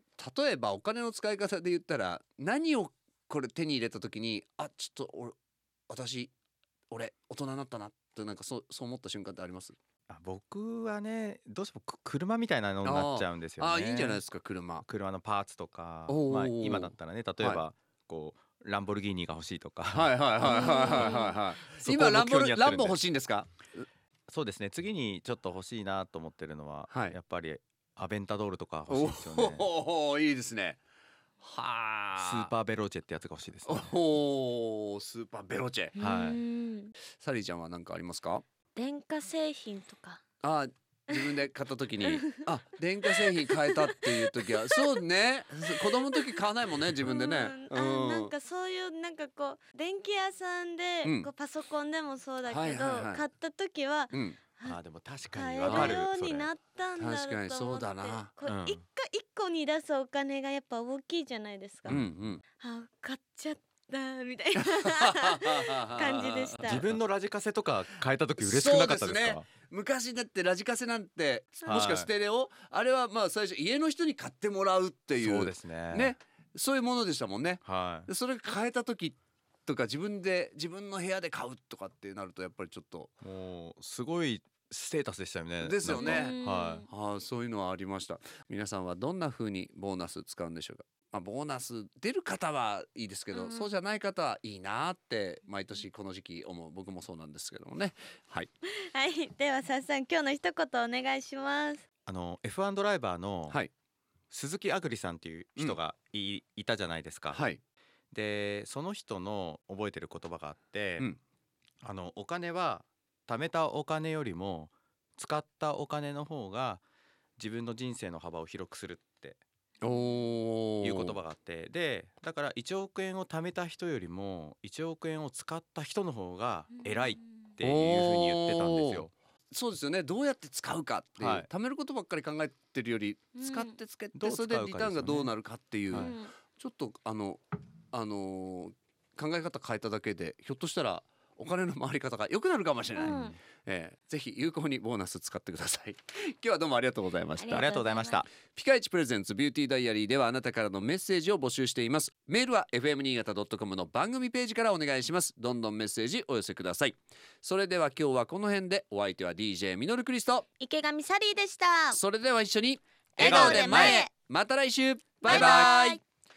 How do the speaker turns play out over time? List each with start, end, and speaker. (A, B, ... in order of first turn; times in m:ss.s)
0:00.2-0:05.4 A
0:05.9-0:06.3 A
0:06.9-0:09.8 A
0:10.1-0:14.2 B
0:12.8-0:14.8 A
0:14.8-0:23.0 B
0:16.1-0:17.6 A
0:19.9-0:23.8 A
0:20.4-0:21.3 C
0:24.3-0:29.6 B
0:26.9-0:27.1 A
0:28.9-0:30.8 A
0:31.4-0:32.5 A
0:32.2-0:33.9 B
0:33.6-0:35.9 A
0:35.9-0:36.9 C
0:36.0-0:36.4 B
0:37.2-0:38.4 A
0:38.7-0:40.2 C
0:40.4-0:48.3 A
0:41.1-0:41.4 C
0:43.1-0:44.8 C
0:46.1-0:46.4 C
0:47.0-0:54.8 C
0:51.0-0:51.3 A
0:52.4-0:53.2 A
0:54.1-0:54.4 A
0:54.6-0:56.5 B
0:55.3-1:02.0 C
0:55.6-0:56.0 A
0:57.0-0:58.3 A
0:58.4-0:58.8 B
1:01.8-1:02.3 B
1:01.8-1:02.4 A
1:02.6-1:06.8 C
1:04.7-1:07.0 A
1:06.6-1:09.5 B
1:08.4-1:23.1 A
1:11.7-1:12.1 B
1:15.2-1:16.1 B
1:17.6-1:18.1 B
1:23.2-1:26.8 B
1:25.6-1:26.4 A
1:25.9-1:26.9 C
1:26.9-1:38.5 A
1:33.3-1:33.7 C
1:38.8-1:41.8 C
1:42.0-1:43.6 B
1:44.3-1:47.5 B
1:47.3-1:47.6 A
1:48.1-1:51.1 B
1:51.8-1:56.8 B
1:57.4-1:59.4 B
1:59.8-2:01.2 A
1:59.8-2:00.1 C
2:00.8-2:09.1 B
2:06.7-2:07.3 C
2:07.6-2:17.4 A
2:11.2-2:11.5 B
2:13.4-2:13.8 C
2:14.1-2:15.3 B
2:15.9-2:16.3 C
2:17.9-2:27.7 A
2:23.0-2:23.4 C
2:23.0-2:23.4 B
2:27.4-2:28.2 C
2:27.5-2:28.3 B
2:28.5-2:40.4 A
2:40.6-2:42.0 C
2:41.9-2:46.0 A
2:43.2-2:44.1 C
2:43.2-2:44.0 B
2:45.2-2:46.0 C
2:45.3-2:45.7 B